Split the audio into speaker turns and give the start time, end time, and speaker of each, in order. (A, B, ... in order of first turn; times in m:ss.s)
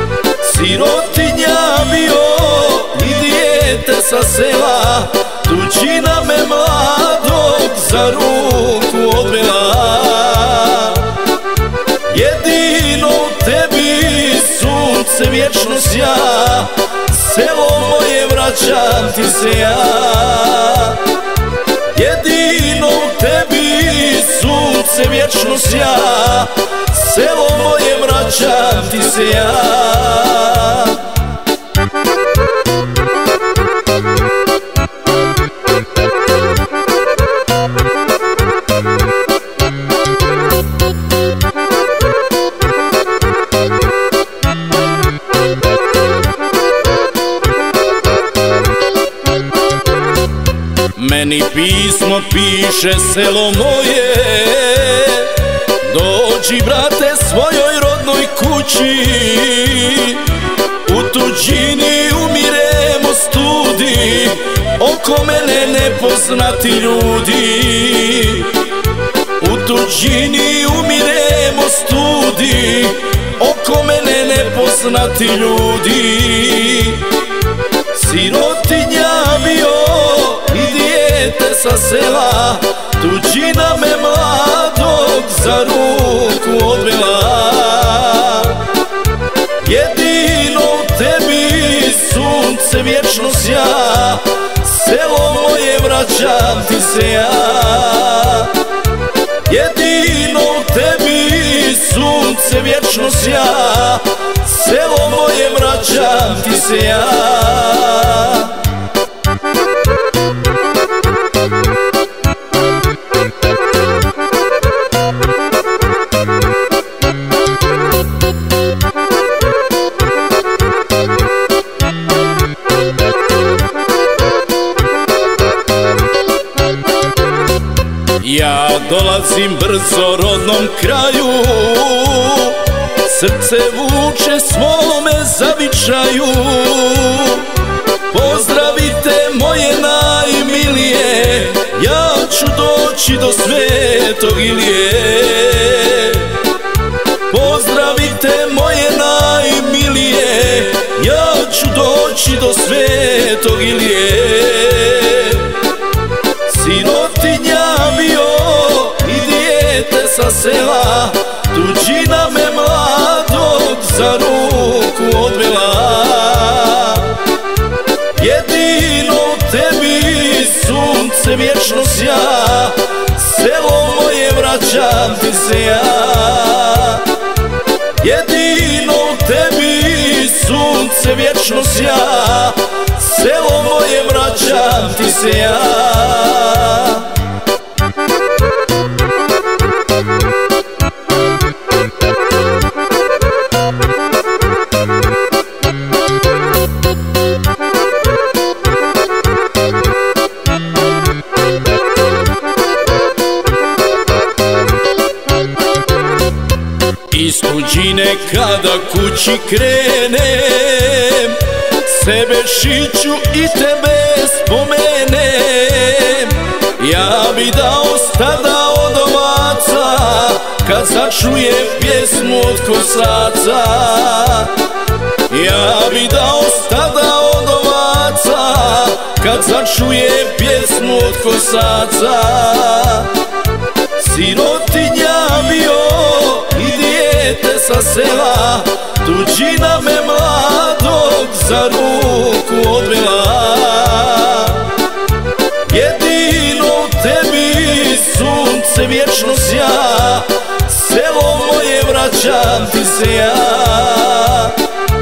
0:00.3-0:11.2 A
0:12.0-0:21.2 A
0:21.9-0:31.2 A
0:50.9-1:08.8 A
1:09.4-1:17.3 A
1:17.9-1:28.7 A
1:29.6-1:38.7 A
1:39.4-1:48.7 A
2:08.2-2:26.5 A
2:27.3-2:35.7 A
2:36.4-2:47.3 A
2:48.1-2:57.2 A
2:58.0-3:07.2 A
3:27.1-3:44.6 A
3:45.3-3:53.3 A
3:53.9-4:04.8 A
4:05.6-4:14.7 A